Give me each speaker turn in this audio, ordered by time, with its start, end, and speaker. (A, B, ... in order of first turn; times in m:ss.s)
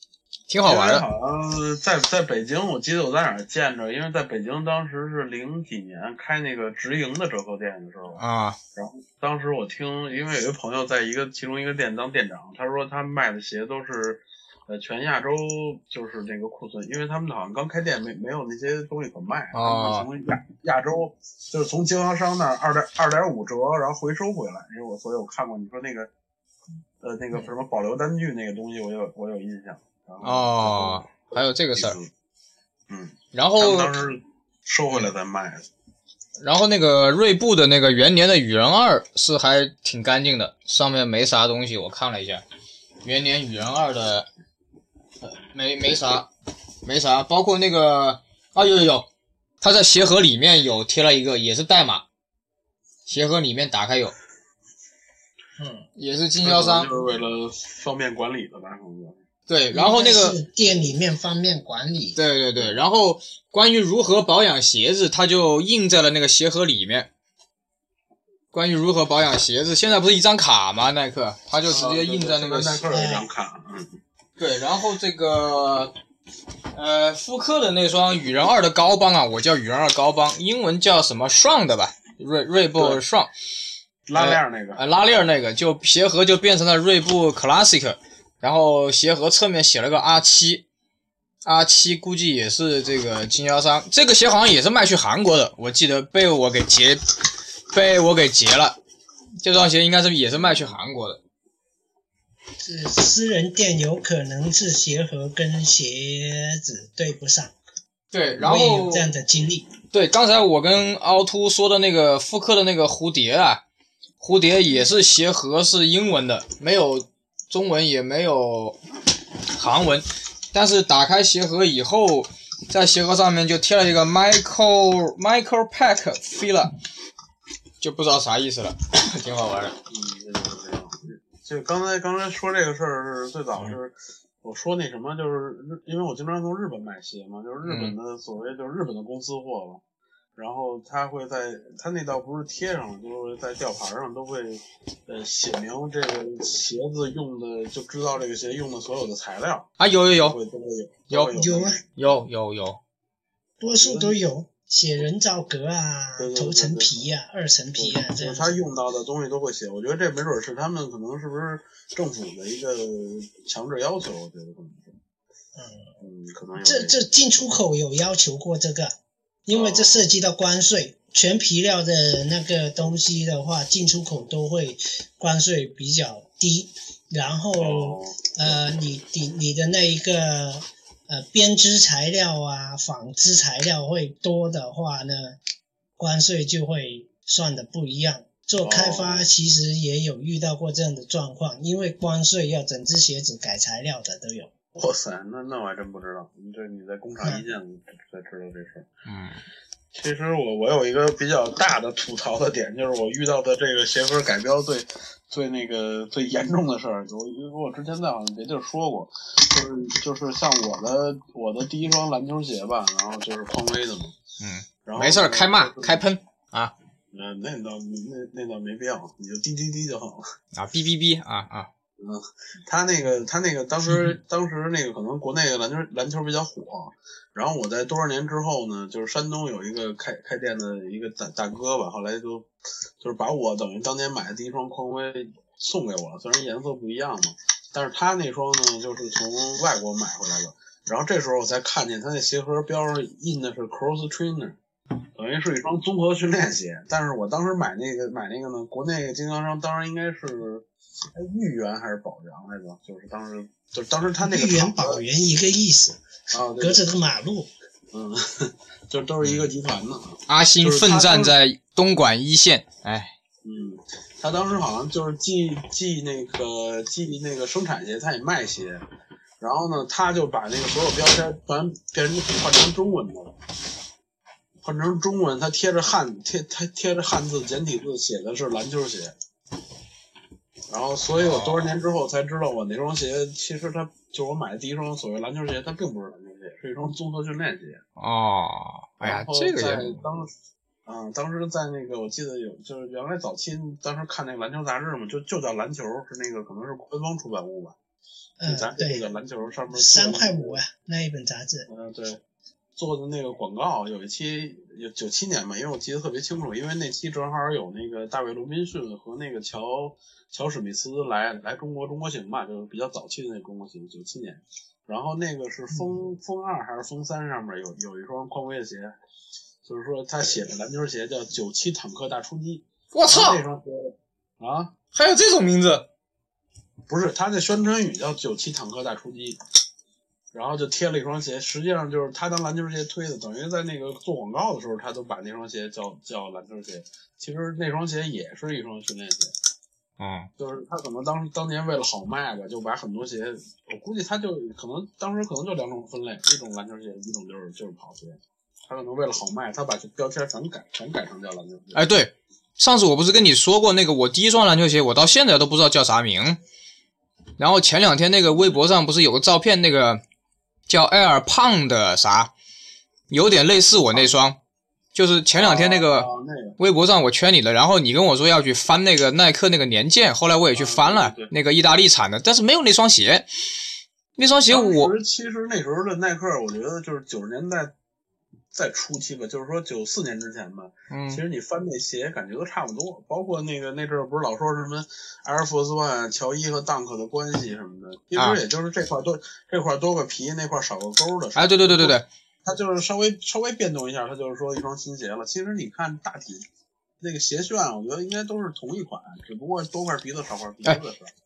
0:00.5-0:01.0 A
0:00.6-0:08.2 B
0:08.2-0:08.6 A
0:08.8-0:26.1 B
0:19.5-0:20.1 A
0:27.0-0:32.1 B
0:30.2-0:32.0 A
0:32.9-0:35.7 B
0:33.3-0:33.9 A
0:36.4-0:42.4 A
0:43.0-0:44.3 A
0:45.2-0:46.3 A
0:46.8-0:49.1 A
0:49.6-0:52.0 A
0:53.0-0:54.2 A
0:55.6-0:55.8 C
0:56.0-0:56.9 A
0:56.4-0:59.2 B
0:59.5-1:00.4 A
0:59.7-1:02.2 C
1:02.2-1:07.1 A
1:08.5-1:12.9 A
1:11.7-1:14.0 B
1:12.9-1:13.2 C
1:14.4-1:15.9 A
1:16.7-1:23.3 A
1:24.1-1:24.8 B
1:24.1-1:30.6 A
1:31.4-1:37.0 A
1:37.7-1:38.8 A
1:39.4-1:41.2 A
1:42.6-1:47.5 C
1:48.1-1:49.1 A
1:48.4-1:49.7 C
1:49.9-1:53.6 A
1:54.2-1:58.8 A
1:59.5-2:06.7 A
2:07.8-2:09.8 A
2:09.9-2:19.8 B
2:17.6-2:18.0 A
2:20.4-2:31.8 B
2:29.8-2:30.4 A
2:31.1-2:31.4 A
2:31.3-2:31.8 C
2:32.0-2:32.8 A
2:33.6-2:34.2 B
2:33.6-2:38.5 C
2:36.2-2:37.0 B
2:37.8-2:44.9 B
2:45.6-2:45.9 C
2:46.0-2:47.0 B
2:46.6-2:48.9 C
2:49.5-3:05.4 C
2:49.5-2:50.1 B
2:57.6-2:58.6 B
3:06.0-3:14.5 C
3:08.6-3:09.2 B
3:14.7-3:18.9 B
3:19.1-3:19.4 A
3:19.9-3:34.2 B
3:34.4-3:36.7 A
3:34.8-3:36.0 B
3:37.1-3:40.2 B
3:40.5-3:41.7 A
3:42.0-3:52.5 B
3:53.0-4:04.6 B
4:05.2-4:15.0 B
4:14.2-4:16.0 C
4:16.3-4:16.8 B
4:16.6-4:17.5 C
4:17.9-4:21.3 B
4:19.2-4:19.5 A
4:20.3-4:23.1 A
4:23.4-4:28.8 B
4:29.4-4:33.3 B
4:34.6-4:39.1 B
4:40.7-4:47.8 B
4:41.2-4:41.7 A
4:48.0-4:50.0 A
4:49.0-4:50.3 B
4:50.8-4:57.8 B
4:58.4-4:59.0 C
4:58.4-5:00.6 B
4:59.7-5:01.7 C
5:01.7-5:02.2 B
5:02.8-5:18.9 B
5:19.6-5:24.7 B
5:22.9-5:23.4 A
5:24.9-5:25.9 A
5:26.9-5:29.4 B
5:30.3-5:39.3 B
5:40.0-5:40.3 A
5:40.4-5:51.8 B
5:51.7-5:56.4 A
5:57.4-6:00.0 A
6:00.7-6:02.3 A
6:03.1-6:04.4 A
6:04.9-6:06.1 A
6:05.3-6:06.6 B
6:06.6-6:13.3 A
6:10.5-6:11.3 B
6:14.2-6:14.9 A
6:14.5-6:17.7 B
6:18.5-6:36.5 B
6:20.9-6:21.2 A
6:31.4-6:32.0 A
6:37.0-6:41.1 B